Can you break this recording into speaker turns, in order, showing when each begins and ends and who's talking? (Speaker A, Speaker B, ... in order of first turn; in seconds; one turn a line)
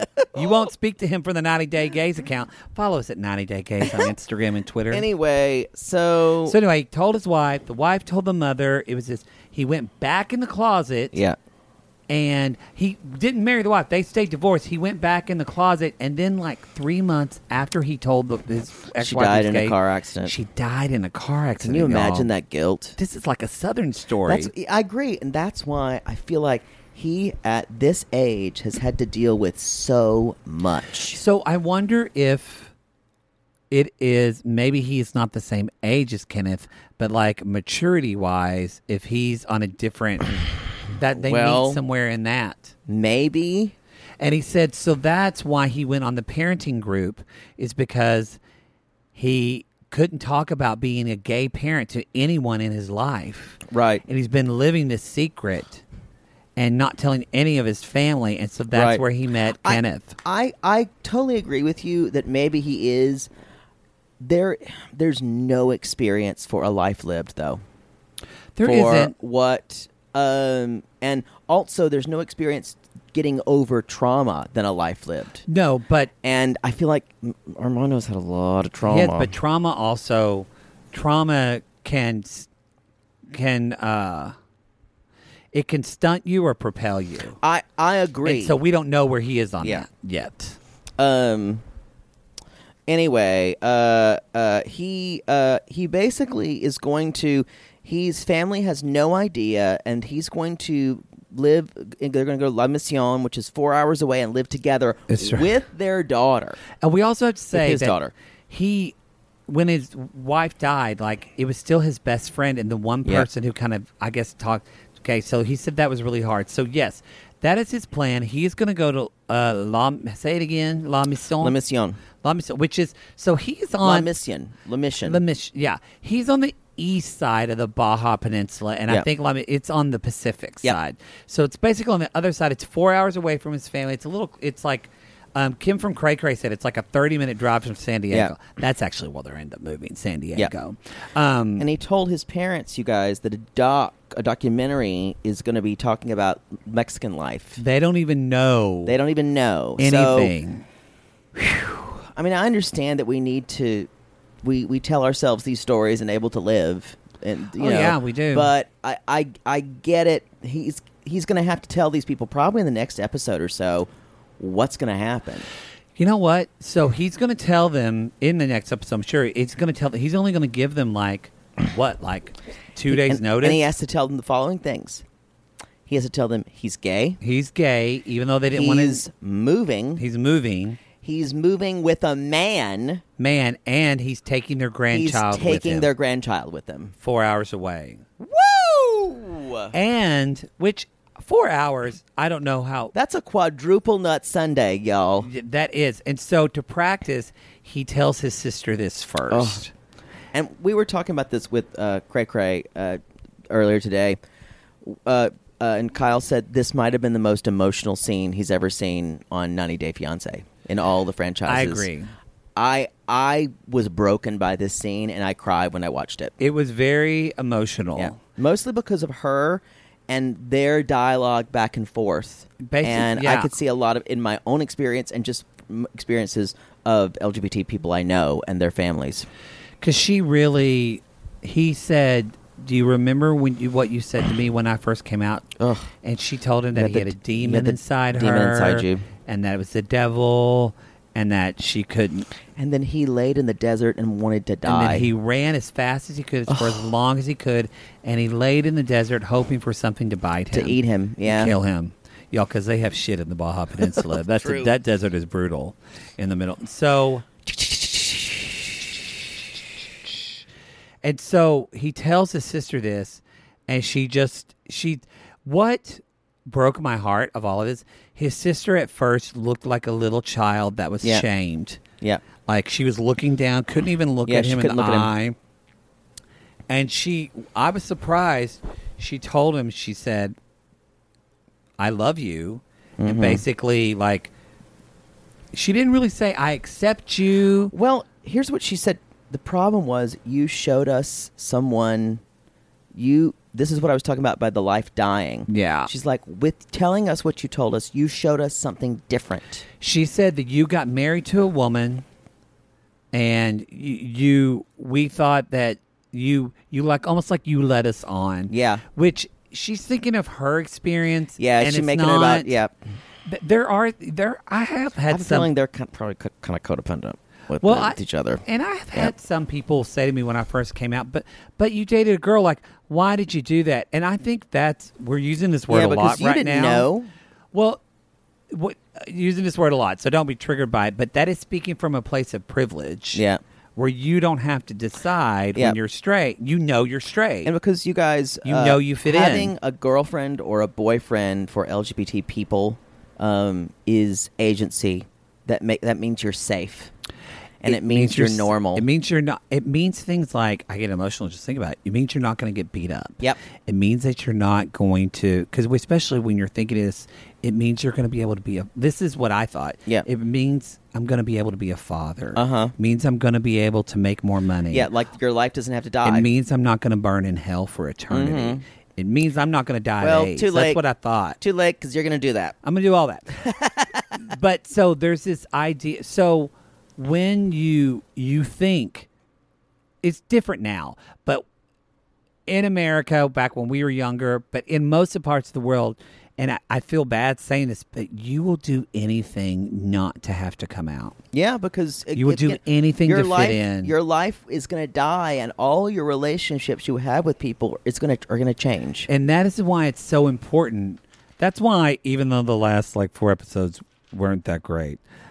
Speaker A: 0.2-0.6
Speaker B: 0.3-5.1
Speaker A: 4.9-6.6
Speaker B: 6.5-11.2
Speaker B: 12.1-22.3
Speaker A: 19.0-20.3
Speaker A: 21.6-23.0
Speaker B: 23.0-24.5
Speaker A: 24.3-31.2
Speaker B: 31.1-32.7
Speaker B: 33.7-42.7
Speaker A: 41.2-41.8
Speaker A: 42.9-43.7
Speaker B: 44.2-48.4
Speaker B: 49.1-55.8
Speaker A: 53.7-54.0
Speaker B: 56.6-60.1
Speaker A: 58.7-59.0
Speaker A: 59.6-63.3
Speaker A: 64.2-67.6
Speaker B: 68.6-69.1
Speaker A: 68.6-75.5
Speaker B: 75.5-76.1
Speaker A: 76.2-79.3
Speaker B: 78.8-82.5
Speaker B: 83.3-84.3
Speaker B: 85.5-87.4
Speaker A: 87.4-88.5
Speaker B: 88.2-90.6
Speaker A: 91.0-91.6
Speaker A: 92.9-106.6
Speaker B: 105.1-105.5
Speaker B: 106.8-108.0
Speaker A: 107.5-108.1
Speaker B: 108.5-108.9
Speaker B: 109.5-121.5
Speaker A: 121.4-122.0
Speaker B: 122.2-124.1
Speaker A: 123.8-125.2
Speaker B: 125.0-141.7
Speaker A: 141.6-147.6
Speaker B: 147.6-149.0
Speaker A: 148.9-150.3
Speaker B: 149.8-150.6
Speaker A: 151.3-153.9
Speaker A: 154.4-163.9
Speaker B: 157.6-158.5
Speaker A: 164.4-165.5
Speaker B: 166.0-173.6
Speaker A: 172.9-175.0
Speaker A: 175.9-177.2
Speaker B: 177.2-179.0
Speaker A: 178.5-180.0
Speaker B: 180.0-180.8
Speaker A: 181.0-183.0
Speaker B: 183.2-185.9
Speaker A: 184.9-186.9
Speaker B: 187.0-188.0
Speaker A: 188.2-189.7
Speaker B: 189.7-192.9
Speaker A: 192.9-195.3
Speaker B: 195.2-199.7
Speaker A: 199.3-199.7
Speaker A: 200.3-204.2
Speaker A: 204.8-211.9
Speaker B: 211.5-212.1
Speaker A: 212.6-216.3
Speaker B: 216.4-218.2
Speaker A: 218.0-229.3
Speaker B: 222.6-223.5
Speaker B: 229.8-235.5
Speaker A: 235.6-235.9
Speaker B: 236.0-242.3
Speaker A: 236.8-239.1
Speaker A: 242.6-245.1
Speaker B: 244.7-257.2
Speaker A: 246.5-246.8
Speaker A: 250.5-251.5
Speaker A: 254.0-254.7
Speaker A: 257.5-258.6
Speaker B: 261.0-271.8
Speaker B: 272.5-275.4
Speaker A: 274.3-275.1
Speaker B: 276.7-280.4
Speaker B: 281.8-284.3
Speaker A: 283.0-283.4
Speaker B: 285.5-287.7
Speaker A: 287.7-292.2
Speaker A: 292.9-299.6
Speaker B: 295.5-295.9
Speaker B: 299.8-302.1
Speaker B: 303.1-312.5
Speaker A: 308.5-308.8
Speaker A: 311.4-312.7
Speaker B: 313.3-315.5
Speaker A: 315.1-318.4
Speaker B: 317.6-326.9
Speaker A: 325.7-327.1
Speaker B: 327.5-327.8
Speaker B: 328.5-333.2
Speaker A: 333.1-333.4
Speaker B: 333.8-337.5
Speaker A: 337.4-346.9
Speaker B: 338.4-339.5
Speaker A: 347.6-348.9
Speaker B: 347.6-364.9
Speaker A: 362.4-362.7
Speaker A: 364.7-366.3
Speaker B: 366.0-371.4
Speaker A: 368.1-368.6
Speaker A: 370.0-370.8
Speaker A: 371.4-372.6
Speaker B: 372.6-373.4
Speaker A: 373.4-374.1
Speaker B: 374.1-379.1
Speaker B: 380.0-381.4
Speaker B: 382.5-391.2
Speaker A: 391.3-399.1
Speaker B: 392.2-393.9
Speaker B: 399.1-405.0